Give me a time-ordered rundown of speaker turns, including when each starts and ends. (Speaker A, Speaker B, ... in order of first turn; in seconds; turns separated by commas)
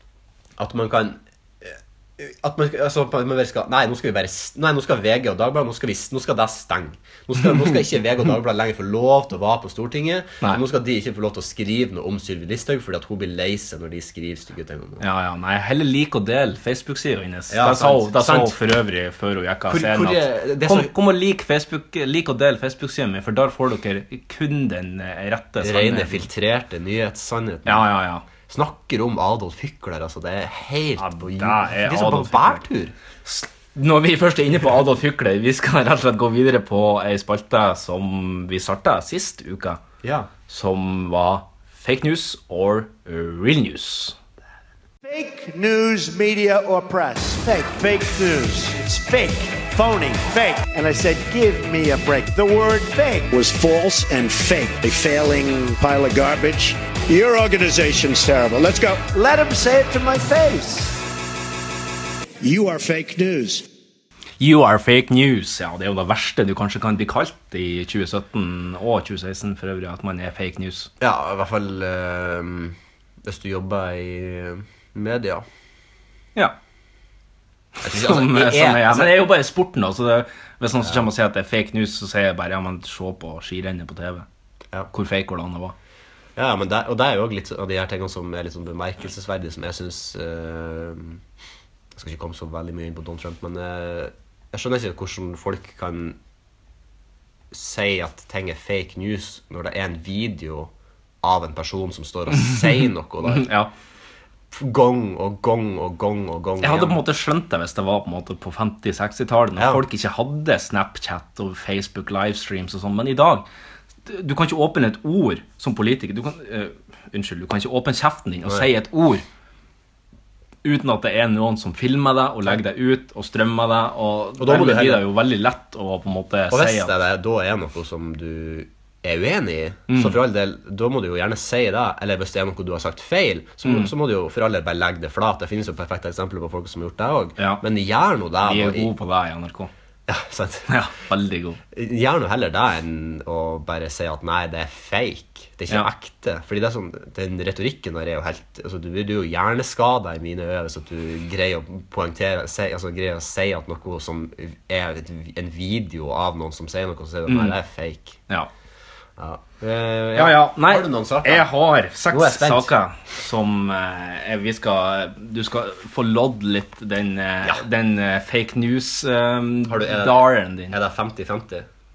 Speaker A: 0.6-15.0, Speaker B: 15.0-26.3, Speaker A: 17.5-18.6, Speaker A: 19.7-20.9, Speaker A: 25.6-27.9, Speaker B: 27.6-28.2, Speaker A: 28.5-32.9, Speaker B: 31.0-32.6, Speaker B: 33.2-39.8, Speaker A: 40.0-40.3, Speaker B: 40.5-44.2, Speaker C: 45.0-61.0, Speaker C: 62.4-63.6, Speaker B: 64.4-70.9, Speaker A: 71.0-75.4, Speaker B: 77.8-84.2, Speaker A: 77.8-79.2, Speaker B: 84.9-85.7, Speaker A: 86.3-91.2, Speaker A: 91.9-96.2, Speaker A: 97.5-100.7, Speaker A: 101.2-103.5, Speaker B: 102.4-103.7, Speaker A: 104.5-107.0, Speaker B: 106.6-113.5, Speaker A: 109.6-109.8, Speaker B: 114.0-119.2, Speaker B: 120.6-126.9, Speaker A: 124.4-125.0, Speaker A: 126.5-138.9, Speaker B: 129.9-130.2, Speaker B: 133.6-133.9, Speaker B: 138.4-139.7, Speaker A: 140.1-140.7, Speaker B: 140.7-141.6, Speaker A: 141.7-158.2, Speaker B: 157.3-157.6, Speaker A: 159.2-161.5, Speaker B: 160.1-170.7, Speaker A: 162.1-162.7, Speaker A: 169.7-171.7